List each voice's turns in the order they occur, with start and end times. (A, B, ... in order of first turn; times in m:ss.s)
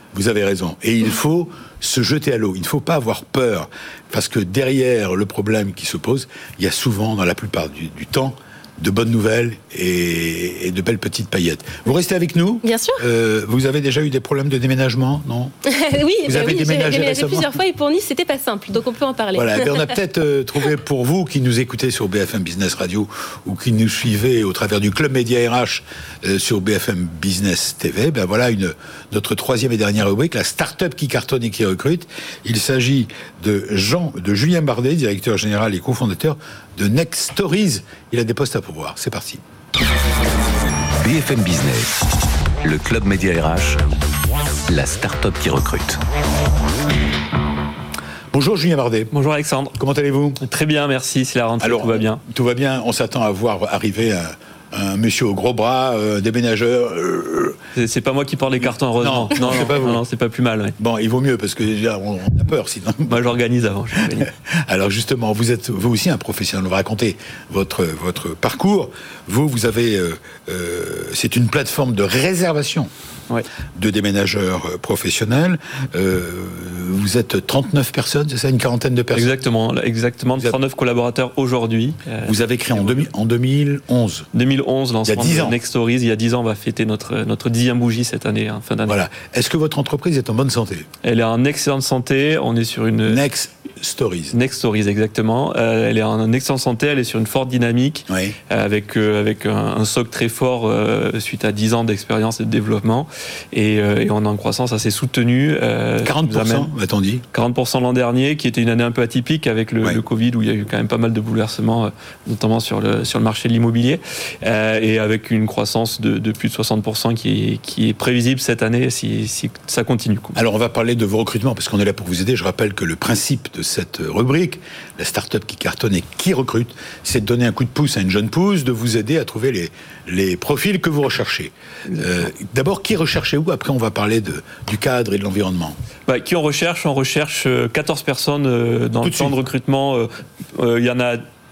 0:00.1-0:15.5 A
0:12.6-0:13.0 B
0:15.6-0:19.8 B
0:16.2-0:17.6 A
0:19.3-0:39.4 A
0:41.0-0:42.0 C
0:42.6-0:43.8 C
0:44.7-0:46.0 C
0:48.3-0:49.1 A
0:49.1-0:49.8 D
0:49.8-0:50.4 A
0:50.4-0:52.2 D
0:51.6-0:57.6 A
0:57.8-1:00.7 D
0:59.0-1:00.0 A
1:00.8-1:03.3 A
1:03.1-1:04.3 D
1:04.0-1:12.9 A
1:13.7-1:19.3 A
1:19.1-1:23.0 D
1:22.2-1:24.3 A
1:24.3-1:29.0 D
1:25.0-1:25.6 A
1:28.9-1:30.9 A
1:31.0-1:33.2 D
1:33.0-1:34.4 A
1:34.3-1:46.7 D
1:38.1-1:38.3 A
1:46.0-1:47.2 A
1:47.3-2:00.4 D
2:00.3-2:15.8 A
2:16.1-2:21.2 D
2:19.0-2:19.3 A